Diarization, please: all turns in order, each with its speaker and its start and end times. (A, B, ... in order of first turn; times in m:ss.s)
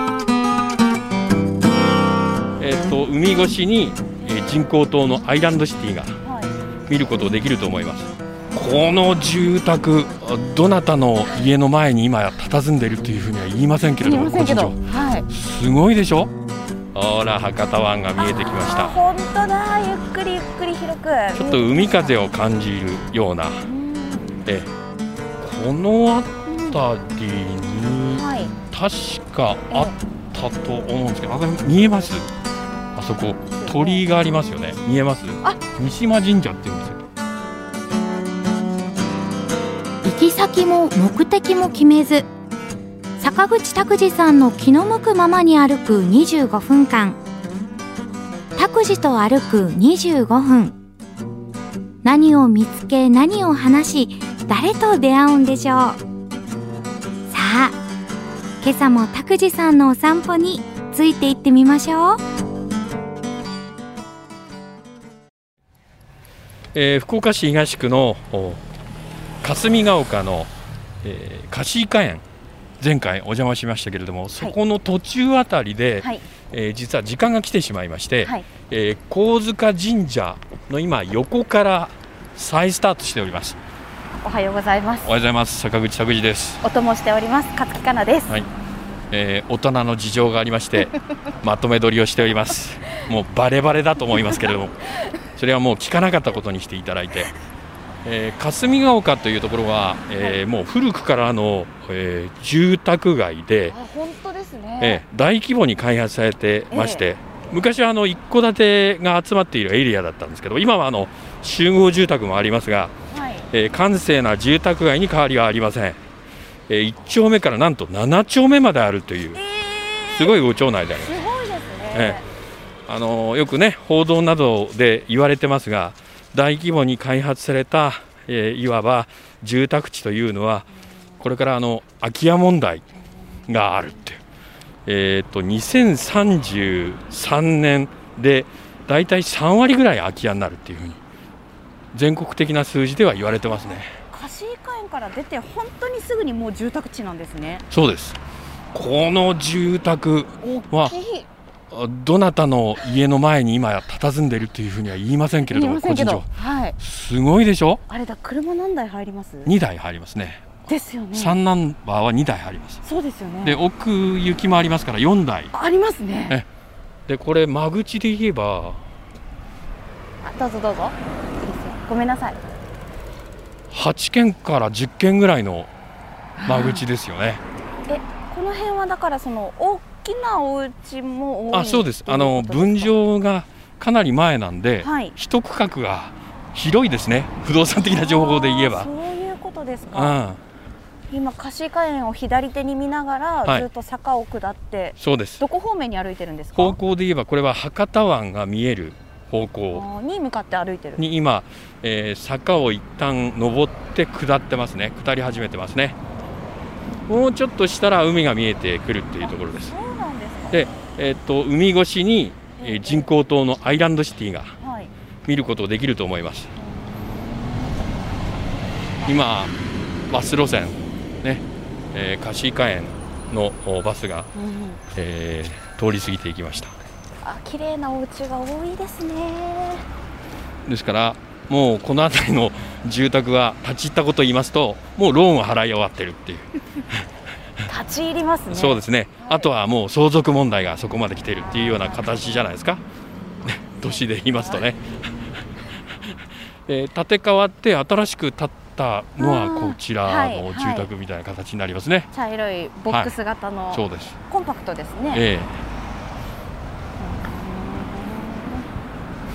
0:02.6-0:06.2 A
0:06.2-0:06.5 B
0:06.9-0:16.3 A
0:14.0-0:15.3 B
0:16.9-0:19.0 A
0:18.2-0:22.3 B
0:21.3-0:23.6 A
0:23.6-0:24.4 B
0:25.4-0:32.3 A
0:26.5-0:26.8 B
0:28.1-0:28.5 B
0:29.7-0:30.0 B
0:32.9-0:37.0 A
0:33.6-0:34.0 B
0:40.0-0:42.3 C
0:43.2-0:47.2 C
0:48.6-0:50.7 C
0:52.0-0:56.0 C
0:57.3-0:57.8 C
0:58.6-1:02.2 C
1:06.7-1:08.6 A
1:09.4-1:10.5 A
1:11.0-1:12.2 A
1:12.8-1:23.6 A
1:24.2-1:25.1 B
1:25.0-1:26.6 A
1:26.6-1:28.4 B
1:29.1-1:34.8 A
1:35.3-1:37.3 A
1:38.0-1:43.7 A
1:43.7-1:45.0 B
1:44.8-1:52.9 A
1:46.7-1:47.0 B
1:53.1-1:53.5 B
1:53.5-1:56.0 A
1:56.7-1:59.4 A
1:59.4-2:00.4 B
2:00.1-2:01.2 A
2:01.0-2:02.2 B
2:01.9-2:02.2 A
2:02.9-2:10.7 A
2:11.2-2:12.9 A
2:13.4-2:14.2 A
2:14.8-2:21.0 A
2:21.9-2:23.9 A
2:24.1-2:27.6 B
2:27.7-2:28.2 A
2:28.7-2:31.0 A
2:30.4-2:31.3 B
2:31.7-2:37.8 A
2:35.5-2:36.8 B
2:37.9-2:39.5 B
2:39.4-2:40.5 A
2:40.7-2:41.4 B
2:41.1-2:42.8 A
2:42.8-2:43.6 B
2:43.4-2:45.5 A
2:45.5-2:46.4 B
2:47.1-2:48.8 A
2:50.2-2:52.4 B
2:53.7-2:55.7 A
2:56.4-2:56.8 B
2:56.4-2:57.4 A
2:57.9-3:02.9 B
3:01.5-3:08.9 A
3:04.8-3:05.1 B
3:07.9-3:10.2 B
3:09.9-3:10.4 A
3:11.1-3:16.8 B
3:15.0-3:15.4 A
3:16.6-3:19.8 A
3:19.7-3:21.0 B
3:21.0-3:26.0 A
3:27.1-3:29.7 A
3:29.2-3:30.6 B
3:30.5-3:34.6 A
3:32.6-3:33.1 B
3:34.6-3:34.9 B
3:35.2-3:36.5 A
3:36.6-3:37.7 B
3:39.0-3:39.6 A
3:40.1-3:44.3 A
3:44.4-3:44.8 B
3:44.9-3:46.7 A
3:47.2-3:49.8 B
3:50.6-3:57.0 A
3:57.6-3:59.5 B
3:58.5-4:02.8 A
4:01.5-4:02.2 B
4:03.4-4:04.8 A
4:06.7-4:12.1 A
4:09.2-4:10.9 B
4:12.1-4:15.2 B
4:13.7-4:14.2 A
4:15.1-4:15.6 A
4:17.0-4:18.6 B